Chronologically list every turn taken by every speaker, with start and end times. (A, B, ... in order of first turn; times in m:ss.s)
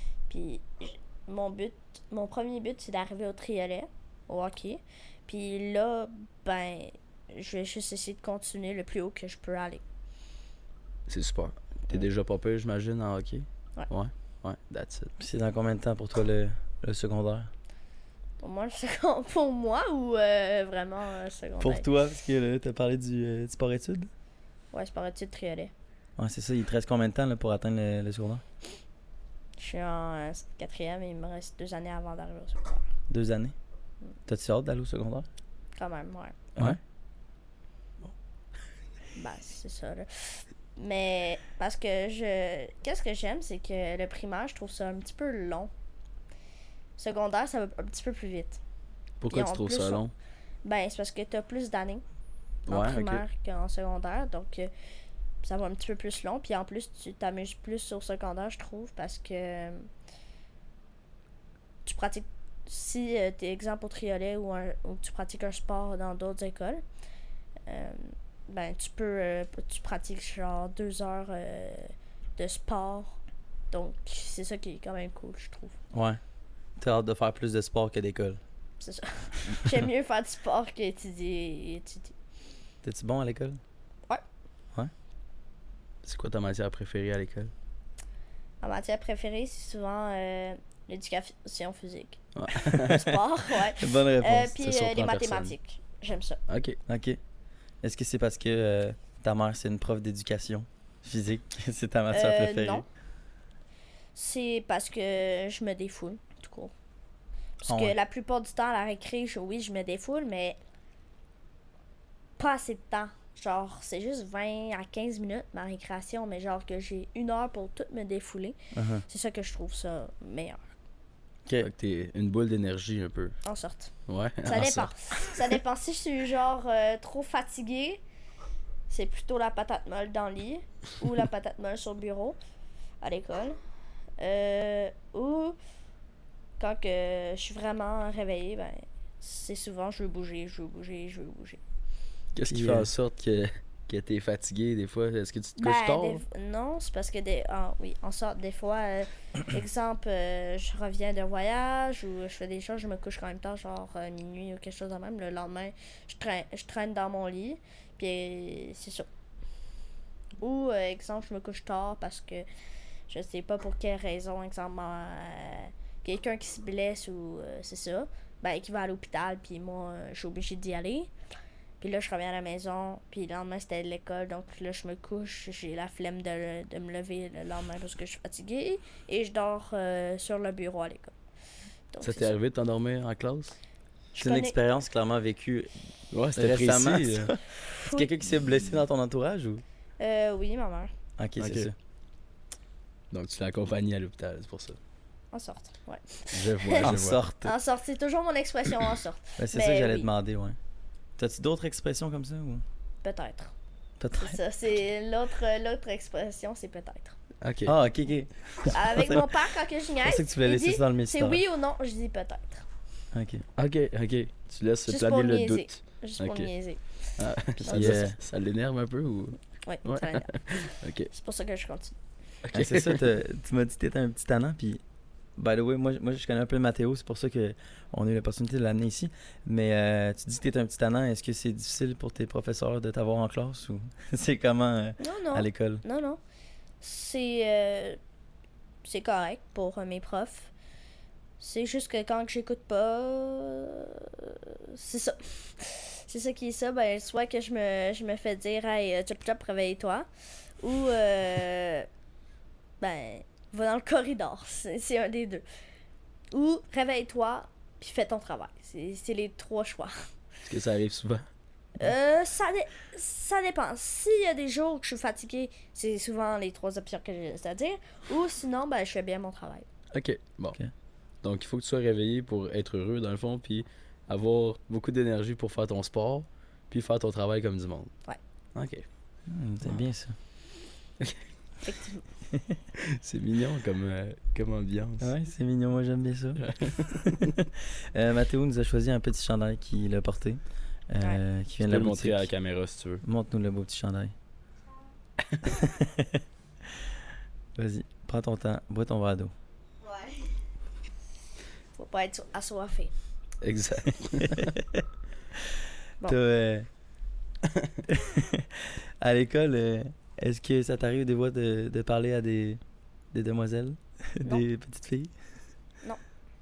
0:00.3-0:09.8 A
0:11.1-0:15.1 B
0:15.2-0:17.5 C
0:18.4-0:21.9 A
0:21.6-0:24.1 C
0:24.7-0:25.7 A
0:26.2-0:28.4 C
0:29.6-0:32.8 A
0:33.1-0:33.5 C
0:34.3-0:35.3 C
0:35.8-0:36.4 A
0:39.2-0:45.7 A
0:47.0-0:48.6 A
0:49.2-0:50.1 B
0:49.3-0:50.0 A
0:50.6-0:52.0 A
0:52.7-0:53.2 B
0:52.7-0:54.7 A
0:55.4-0:59.9 A
1:01.8-1:06.8 A
1:07.7-1:13.2 A
1:13.7-1:15.8 A
1:15.9-1:16.2 C
1:16.8-1:18.4 C
1:18.8-1:22.1 A
1:22.8-1:23.6 C
1:26.0-1:27.5 B
1:28.6-1:36.4 A
1:32.4-1:33.2 B
1:33.8-1:34.6 C
1:34.6-1:35.6 B
1:36.5-1:36.8 B
1:36.9-1:37.2 C
1:37.8-1:42.8 C
1:42.1-1:42.8 A
1:44.2-1:46.7 A
1:47.6-1:50.6 A
1:47.7-1:48.0 C
1:52.4-2:00.6 A
1:58.7-1:59.0 C
2:01.6-2:03.4 B
2:03.4-2:03.9 A
2:04.1-2:05.4 B
2:04.4-2:08.0 A
2:08.9-2:12.4 A
2:13.0-2:13.6 A
2:14.2-2:15.6 A
2:16.6-2:21.6 A
2:22.3-2:26.2 B
2:22.5-2:22.9 C
2:25.6-2:39.1 A
2:40.4-2:42.5 A
2:43.1-2:51.1 A
2:51.8-3:01.1 A
3:01.9-3:02.3 A
3:02.0-3:03.6 B
3:04.1-3:04.6 A
3:04.2-3:05.7 C
3:06.1-3:07.4 B
3:06.4-3:09.6 C
3:07.8-3:08.1 A
3:10.0-3:10.9 A
3:11.2-3:11.8 C
3:11.4-3:11.7 B
3:13.1-3:14.8 B
3:15.3-3:20.1 A
3:16.3-3:17.2 B
3:16.8-3:17.5 C
3:19.4-3:20.6 C
3:21.2-3:22.6 C
3:23.0-3:23.5 A
3:24.0-3:24.4 C
3:24.2-3:27.2 A
3:27.4-3:27.7 B
3:27.7-3:29.4 C
3:28.7-3:32.7 A
3:30.0-3:31.4 C
3:33.1-3:33.4 C
3:33.6-3:36.5 B
3:34.9-3:38.0 A
3:37.2-3:41.1 B
3:37.7-3:38.2 C
3:39.7-3:42.0 A
3:42.4-3:43.0 B
3:42.5-3:44.8 C
3:45.4-3:55.8 C
3:55.0-3:56.2 A
3:56.8-3:58.0 A
3:58.8-4:00.5 A
4:01.4-4:10.1 A
4:10.6-4:11.9 A
4:12.8-4:15.4 A
4:16.3-4:20.0 A
4:20.4-4:21.3 B
4:21.8-4:29.7 A
4:29.9-4:30.6 B
4:31.2-4:37.9 B
4:38.6-4:38.9 B
4:39.3-4:40.2 C
4:41.6-4:42.0 A
4:42.8-4:45.1 B
4:45.0-4:52.3 C
4:46.4-4:47.3 B
4:51.6-4:53.0 B
4:53.0-4:54.1 C
4:55.2-4:55.5 B
4:55.6-4:56.2 C
4:57.6-4:59.3 C
4:59.9-5:00.3 A
5:01.8-5:02.9 A
5:03.4-5:04.5 B
5:04.3-5:04.8 C
5:06.0-5:06.7 C
5:07.4-5:07.8 B
5:07.9-5:12.6 C
5:13.1-5:15.1 C